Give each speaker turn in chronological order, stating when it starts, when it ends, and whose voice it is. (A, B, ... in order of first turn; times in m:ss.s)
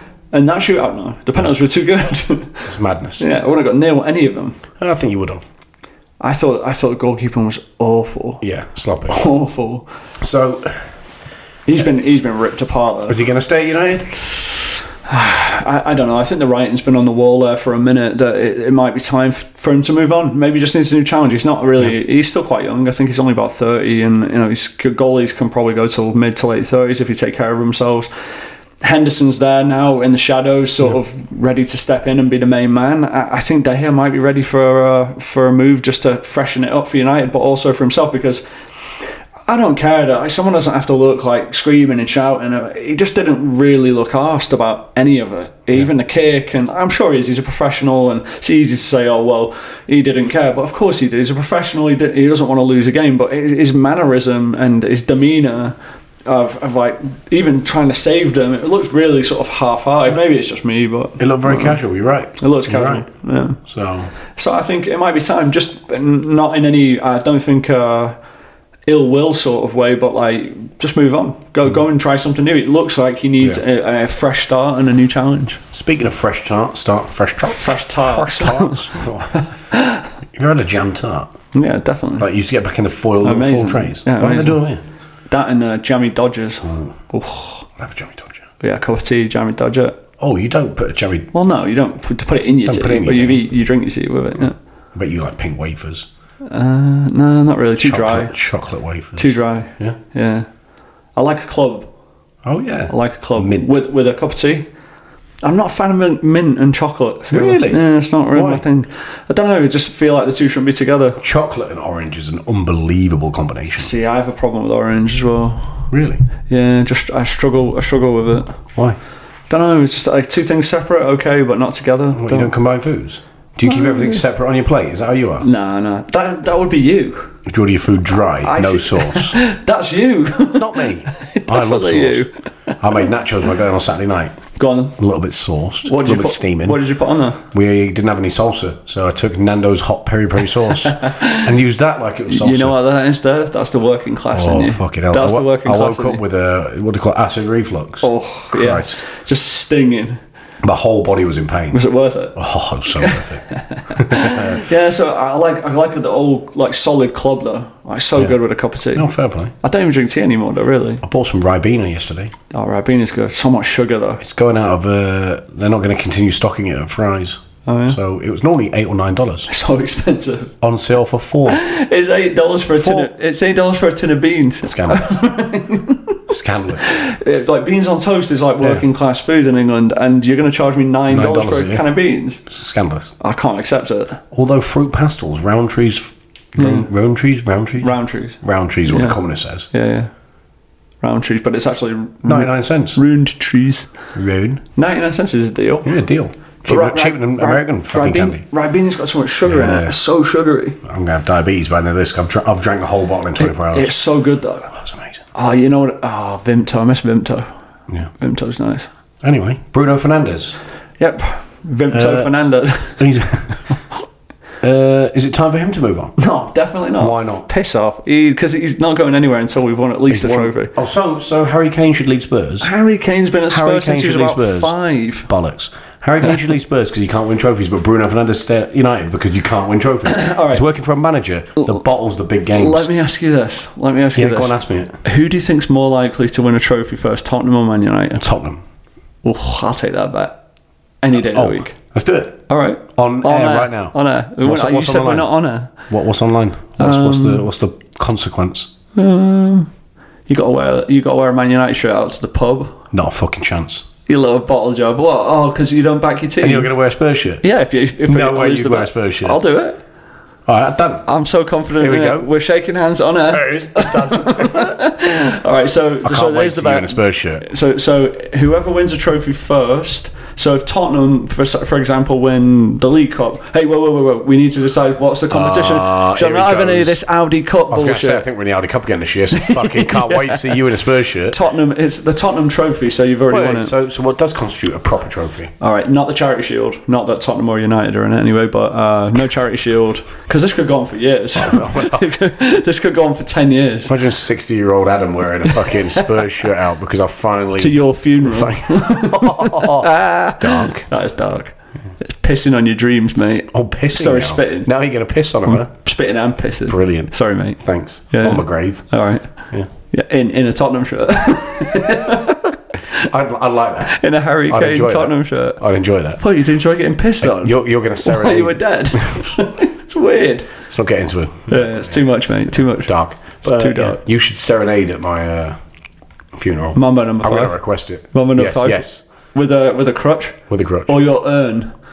0:00.3-0:04.6 A
0:02.6-0:03.2 B
0:04.8-0:05.5 B
0:06.2-0:08.4 A
0:08.4-0:09.2 B
0:09.1-0:09.8 A
0:10.2-0:10.9 B
0:11.7-0:13.2 A
0:13.1-0:14.2 B
0:15.1-0:28.1 A
0:28.8-0:38.4 A
0:39.0-0:55.7 A
0:56.2-1:01.8 A
1:01.2-1:03.1 B
1:02.4-1:03.6 A
1:03.6-1:04.1 B
1:04.4-1:08.2 A
1:08.9-1:15.6 A
1:15.7-1:19.4 B
1:17.4-1:20.1 A
1:20.3-1:21.3 B
1:21.5-1:22.3 A
1:22.2-1:24.8 B
1:23.2-1:24.6 A
1:25.3-1:27.6 A
1:26.6-1:26.9 B
1:27.8-1:28.4 B
1:28.6-1:30.0 A
1:30.2-1:31.3 B
1:31.3-1:34.6 A
1:32.6-1:33.4 B
1:34.9-1:36.1 B
1:36.5-1:38.3 A
1:37.8-1:40.0 B
1:39.2-1:40.5 A
1:41.2-1:41.9 A
1:42.4-1:43.8 B
1:42.9-1:44.7 A
1:45.4-1:51.2 A
1:47.3-1:48.6 B
1:51.2-1:53.9 B
1:53.7-1:55.9 A
1:55.9-1:56.2 B
1:56.5-1:58.6 A
1:59.5-2:02.5 A
2:02.1-2:05.4 B
2:03.6-2:04.2 A
2:05.4-2:07.4 A
2:07.4-2:09.4 B
2:08.4-2:12.8 A
2:10.5-2:12.2 B
2:12.8-2:14.4 B
2:14.6-2:15.0 A
2:15.0-2:16.8 B
2:15.8-2:17.4 A
2:17.5-2:22.8 B
2:20.9-2:21.5 A
2:22.3-2:26.2 A
2:24.3-2:29.0 B
2:28.0-2:30.2 A
2:30.6-2:31.8 B
2:31.7-2:32.4 A
2:32.3-2:34.7 B
2:33.0-2:39.1 A
2:38.9-2:39.5 B
2:39.6-2:41.0 A
2:41.0-2:42.3 B
2:42.5-2:44.2 A
2:44.2-2:49.5 B
2:47.6-2:48.0 A
2:49.5-2:50.5 A
2:50.6-2:51.6 B
2:51.5-2:56.2 A
2:52.7-2:53.1 B
2:54.6-2:55.2 B
2:56.3-2:56.9 B
2:56.8-3:02.4 A
3:01.1-3:01.8 B
3:02.4-3:03.1 B
3:03.2-3:04.2 A
3:04.3-3:09.7 B
3:06.6-3:06.9 A
3:07.8-3:09.2 A
3:09.7-3:10.1 A
3:11.0-3:13.9 A
3:12.2-3:13.0 B
3:14.1-3:14.6 B
3:14.8-3:15.9 A
3:15.8-3:18.4 B
3:16.6-3:20.8 A
3:19.4-3:19.9 B
3:20.8-3:24.0 B
3:23.4-3:24.7 A
3:24.7-3:25.2 B
3:25.3-3:27.5 A
3:28.2-3:28.9 A
3:29.2-3:30.6 B
3:31.0-3:33.2 A
3:31.9-3:32.3 B
3:33.0-3:33.6 B
3:34.6-3:36.1 B
3:36.2-3:40.7 A
3:37.0-3:37.5 B
3:40.1-3:42.7 B
3:42.6-3:45.3 A
3:43.5-3:44.7 B
3:45.3-3:52.9 B
3:50.0-3:50.6 A
3:52.5-3:58.3 A
3:54.1-3:55.0 B
3:58.2-3:58.6 B
3:59.2-4:00.4 A
4:01.0-4:01.7 A
4:01.2-4:02.4 B
4:02.5-4:05.7 A
4:02.9-4:05.3 B
4:05.9-4:08.7 B
4:06.8-4:07.4 A
4:08.9-4:09.7 A
4:10.3-4:12.8 A
4:12.9-4:13.9 B
4:14.0-4:16.7 A
4:16.4-4:17.4 B
4:17.4-4:19.8 A
4:18.1-4:19.4 B
4:20.4-4:21.1 B
4:21.0-4:38.2 A
4:21.8-4:22.3 B
4:23.3-4:24.7 B
4:26.0-4:27.4 B
4:35.3-4:37.0 B
4:37.7-4:41.4 B
4:39.4-4:40.5 A
4:41.3-4:43.7 A
4:43.3-4:45.5 B
4:45.6-4:53.9 A
4:51.3-4:52.1 B
4:53.8-5:00.9 B
4:55.5-4:56.0 A
4:57.6-5:04.7 A
5:03.2-5:05.7 B
5:05.4-5:09.3 A
5:06.7-5:08.8 B
5:09.9-5:13.0 A
5:12.9-5:16.2 B
5:13.8-5:15.6 A
5:16.2-5:20.6 A
5:17.2-5:19.3 B
5:20.7-5:22.0 B
5:21.5-5:24.0 A
5:22.7-5:25.6 B
5:26.3-5:29.0 B
5:26.7-5:27.6 A
5:28.1-5:31.7 A
5:30.5-5:30.9 B